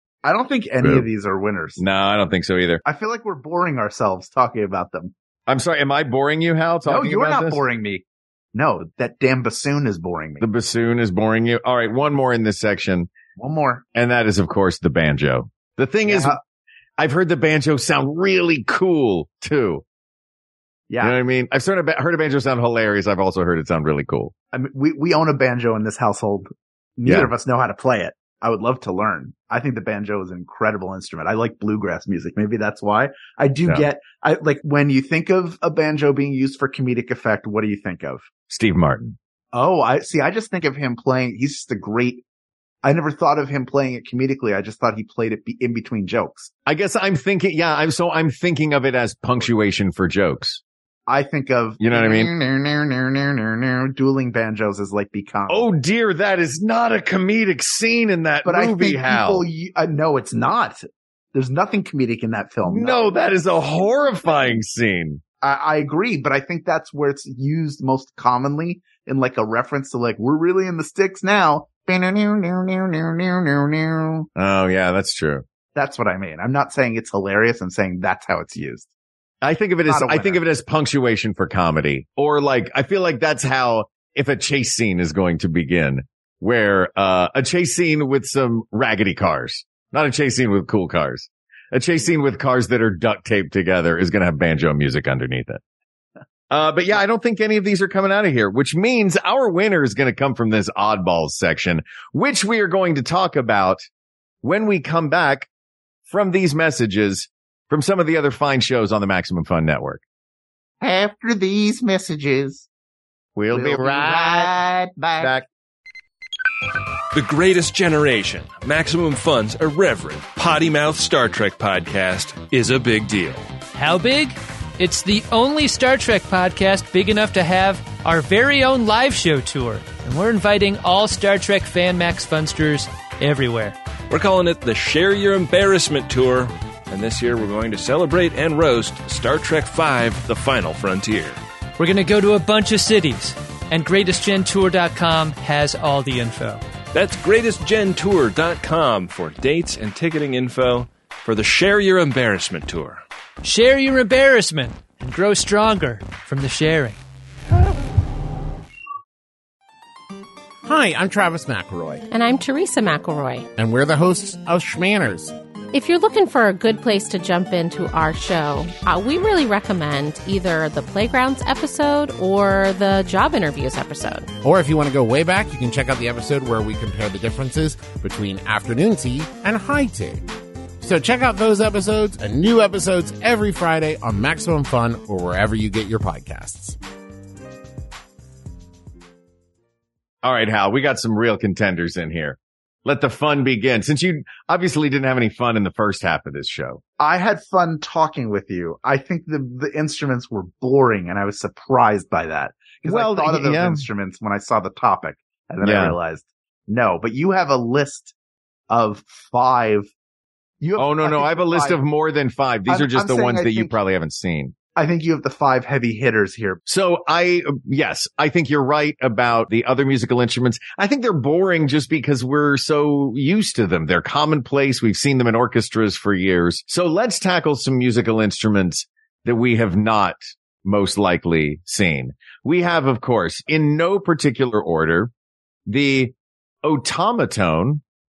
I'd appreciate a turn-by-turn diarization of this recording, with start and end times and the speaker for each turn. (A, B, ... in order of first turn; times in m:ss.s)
0:00.2-0:01.8 A
0:00.8-0:01.1 B
0:01.8-0:02.8 B
0:02.8-0:05.1 A
0:05.5-0:07.6 B
0:06.8-0:10.4 A
0:10.4-0:13.1 B
0:13.4-0:13.8 A
0:13.9-0:16.4 B
0:16.0-0:16.4 A
0:17.0-0:19.8 B
0:20.9-0:21.2 A
0:21.0-0:24.3 B
0:24.5-0:38.2 A
0:27.0-0:27.3 B
0:38.5-0:39.1 B
0:39.5-0:42.2 A
0:42.8-0:46.5 A
0:46.6-0:50.6 B
0:51.1-0:55.7 A
0:51.8-0:52.3 B
0:55.5-0:59.5 B
0:58.4-1:03.2 A
1:02.6-1:05.2 B
1:05.4-1:14.3 A
1:14.4-1:15.4 B
1:15.7-1:18.9 A
1:19.4-1:35.6 B
1:19.8-1:20.4 A
1:36.5-1:43.8 B
1:44.4-1:45.5 B
1:46.1-1:50.0 B
1:50.8-1:52.7 A
1:53.3-1:54.5 B
1:53.5-1:55.3 A
1:55.2-1:55.4 B
1:57.1-2:03.5 C
2:03.7-2:13.7 D
2:14.1-2:21.4 C
2:21.8-2:26.6 D
2:26.9-2:33.0 C
2:33.4-2:37.0 D
2:40.6-2:42.0 E
2:42.1-2:43.5 F
2:43.6-2:45.3 E
2:45.7-2:54.3 F
2:54.4-3:00.3 E
3:00.8-3:06.8 E
3:10.2-3:16.8 B
3:17.0-3:28.1 A
3:22.8-3:23.8 B
3:25.6-3:26.0 B
3:28.7-3:29.9 A
3:30.6-3:31.8 A
3:30.8-3:34.5 B
3:32.7-3:33.7 A
3:34.8-3:36.6 A
3:36.6-3:55.1 B
3:55.7-3:57.8 B